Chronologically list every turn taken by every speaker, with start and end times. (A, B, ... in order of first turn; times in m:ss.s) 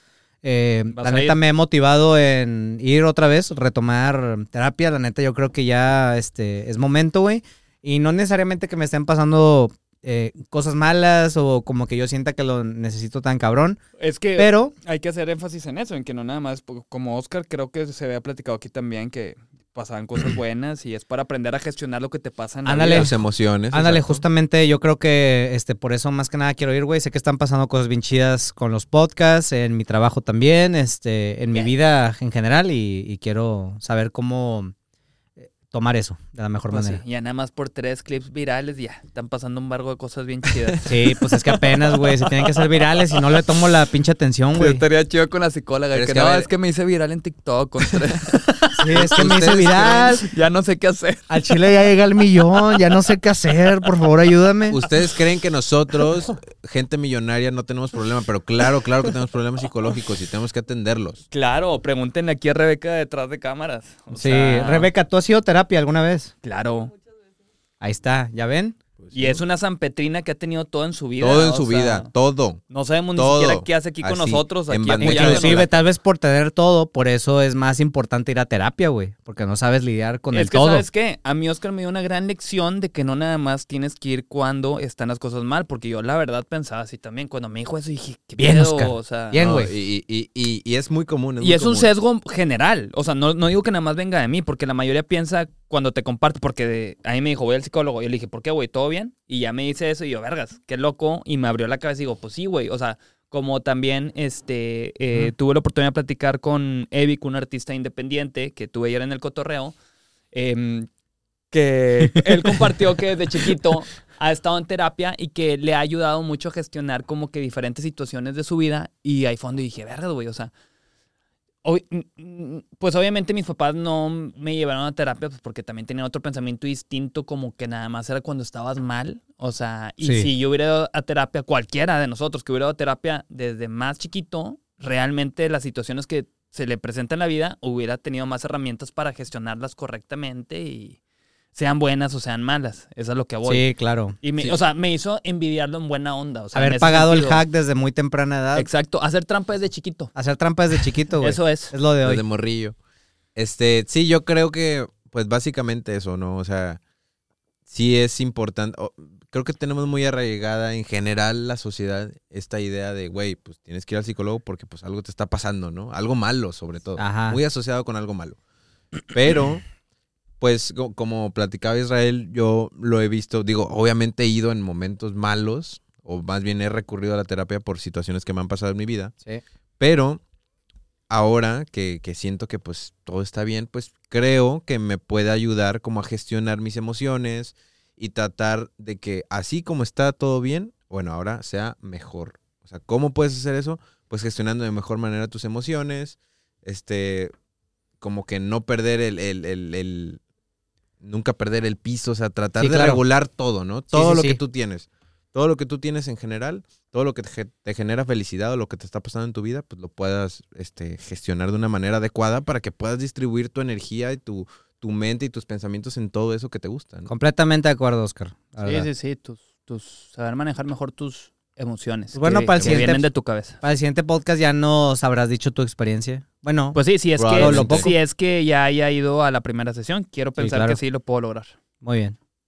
0:00.4-0:13.8 A
0:00.9-0:01.4 B
0:14.0-0:23.2 B
0:14.4-0:14.7 A
0:22.7-0:23.1 A
0:22.8-0:24.2 C
0:23.7-0:34.7 A
0:35.4-0:37.0 A
0:36.7-0:43.4 B
0:40.8-0:44.8 A
0:44.6-0:51.6 B
0:45.9-0:46.5 C
0:47.9-0:48.2 C
0:48.8-0:50.3 A
0:48.9-0:50.0 C
0:51.3-0:54.8 A
0:52.5-0:54.1 B
0:54.7-1:01.2 C
0:54.8-0:55.2 B
0:56.0-0:56.3 B
1:01.3-1:04.9 B
1:04.1-1:06.3 A
1:06.4-1:06.9 B
1:07.8-1:08.8 A
1:09.0-1:09.4 C
1:09.1-1:12.1 B
1:11.2-1:12.6 C
1:12.7-1:15.8 B
1:13.2-1:15.7 C
1:15.0-1:20.9 A
1:20.3-1:29.4 B
1:28.4-1:29.7 A
1:29.4-1:31.9 C
1:31.4-1:49.8 B
1:50.3-1:50.9 B
1:51.5-2:00.5 B
2:01.6-2:21.0 B
2:10.0-2:10.3 A
2:21.6-2:23.7 B
2:23.4-2:24.2 A
2:24.2-2:27.4 B
2:26.5-2:28.7 A
2:28.6-2:30.1 B
2:30.2-2:32.2 A
2:31.2-2:31.7 B
2:32.0-2:32.8 C
2:33.4-2:36.8 C
2:37.7-2:48.4 C
2:47.0-2:47.4 A
2:49.1-2:49.6 C
2:50.4-2:59.1 C
2:59.8-3:00.2 C
3:01.1-3:17.3 C
3:18.0-3:20.2 C
3:21.0-3:37.1 C
3:22.6-3:23.0 A
3:23.9-3:24.4 A
3:37.1-3:38.9 A
3:38.6-3:43.6 B
3:42.1-3:43.0 A
3:42.6-3:42.9 C
3:43.6-3:46.8 A
3:46.8-3:51.5 B
3:47.2-3:47.9 C
3:47.4-3:47.9 A
3:50.4-3:50.8 A
3:51.8-3:52.2 A